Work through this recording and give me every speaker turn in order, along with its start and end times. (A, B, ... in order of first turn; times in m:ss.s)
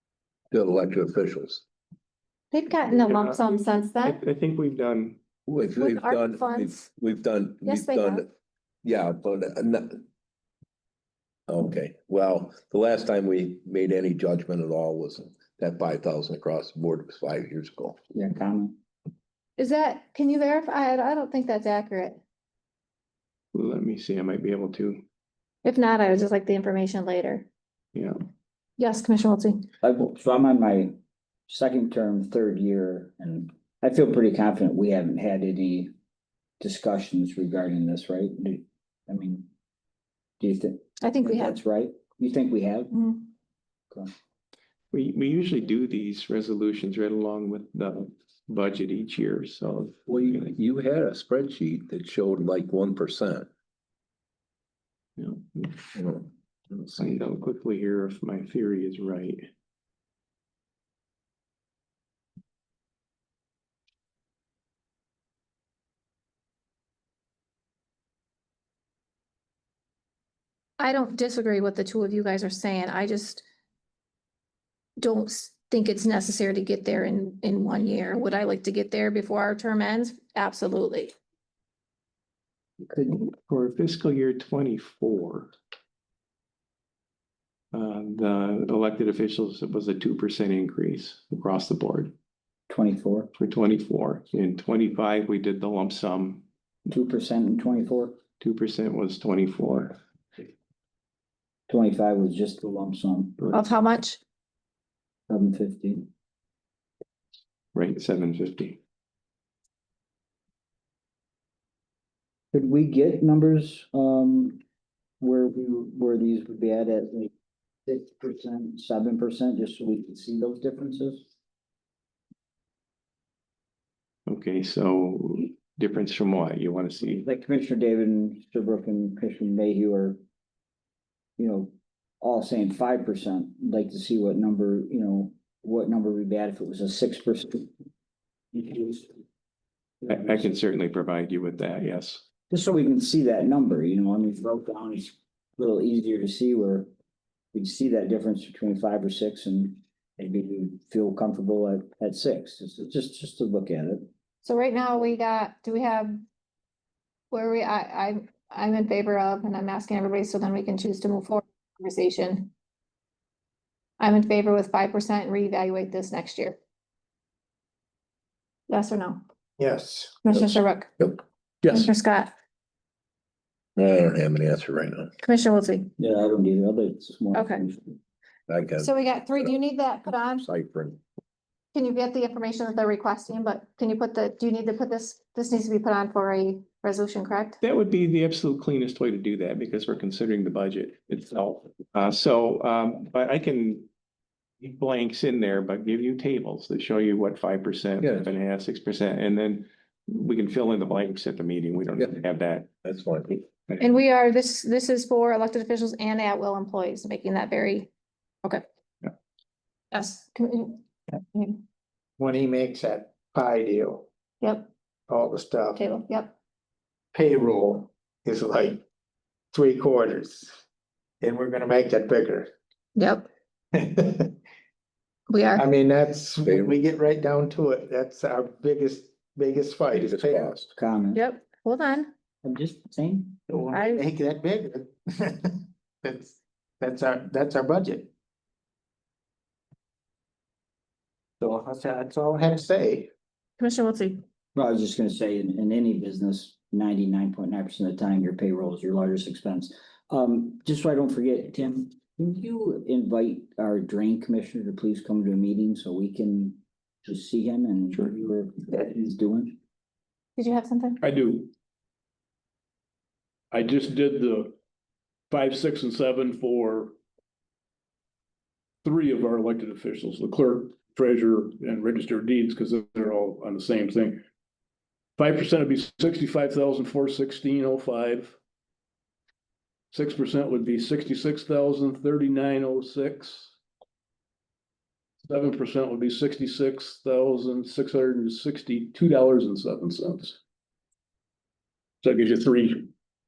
0:00.5-0:01.6 A
0:02.5-0:04.2 B
0:02.9-0:05.2 C
0:05.5-0:08.3 A
0:05.7-0:06.9 B
0:07.6-0:08.2 B
0:08.8-0:10.0 A
0:11.5-0:18.0 A
0:18.1-0:18.8 D
0:19.6-0:22.2 B
0:23.5-0:25.0 C
0:25.6-0:27.5 B
0:28.8-0:29.7 B
0:29.8-0:31.0 D
0:31.5-0:35.9 D
0:36.6-0:39.5 D
0:40.4-0:43.0 D
0:41.0-0:41.6 B
0:42.9-0:43.3 B
0:44.9-0:50.5 C
0:50.1-0:53.5 A
0:55.2-0:55.9 C
0:56.0-0:57.0 A
0:57.0-0:59.5 C
1:10.8-1:13.4 B
1:15.0-1:21.1 B
1:22.8-1:23.3 D
1:23.2-1:25.5 C
1:27.7-1:32.1 C
1:32.7-1:33.3 D
1:33.4-1:36.4 C
1:36.9-1:38.2 D
1:38.4-1:40.0 C
1:41.7-1:43.4 D
1:43.5-1:44.2 B
1:45.3-1:46.1 D
1:47.7-1:48.8 C
1:52.5-1:54.6 D
1:55.2-1:57.3 D
1:57.9-2:01.2 D
2:04.3-2:07.2 C
2:07.1-2:10.2 D
2:11.4-2:17.7 D
2:18.5-2:19.2 D
2:20.0-2:22.2 C
2:22.5-2:26.9 D
2:27.5-2:34.1 D
2:34.4-2:36.2 B
2:37.3-2:42.5 B
2:44.0-2:46.6 B
2:48.7-2:49.2 B
2:49.6-2:50.2 E
2:50.2-2:52.4 B
2:53.8-2:55.1 A
2:55.2-2:55.9 B
2:56.0-2:58.0 D
2:57.3-2:57.7 B
2:58.5-2:58.9 A
2:58.8-3:00.4 B
3:00.4-3:01.0 A
3:01.7-3:07.6 B
3:07.6-3:13.9 C
3:14.6-3:22.7 C
3:18.0-3:18.3 A
3:22.8-3:23.3 A
3:23.8-3:27.9 B
3:29.9-3:31.6 B
3:32.2-3:34.1 E
3:34.4-3:34.7 B
3:35.1-3:35.8 E
3:35.8-3:36.4 B
3:37.1-3:38.8 E
3:39.5-3:40.5 E
3:41.2-3:42.5 E
3:43.0-3:43.3 B
3:43.7-3:44.4 E
3:45.3-3:45.6 B
3:45.6-3:50.6 E
3:46.4-3:46.8 A
3:50.0-3:50.7 A
3:50.8-3:51.2 D
3:51.2-3:52.1 B
3:52.4-3:53.4 D
3:53.5-3:58.1 E
3:53.7-3:54.0 B
4:01.4-4:03.1 E
4:03.6-4:04.2 B
4:04.6-4:19.6 D
4:20.4-4:21.0 B
4:21.0-4:21.5 F
4:23.5-4:24.6 F
4:25.3-4:27.0 F
4:28.8-4:34.2 F
4:35.2-4:38.4 F
4:39.9-4:43.5 F
4:45.2-4:50.4 F
4:52.0-4:52.9 F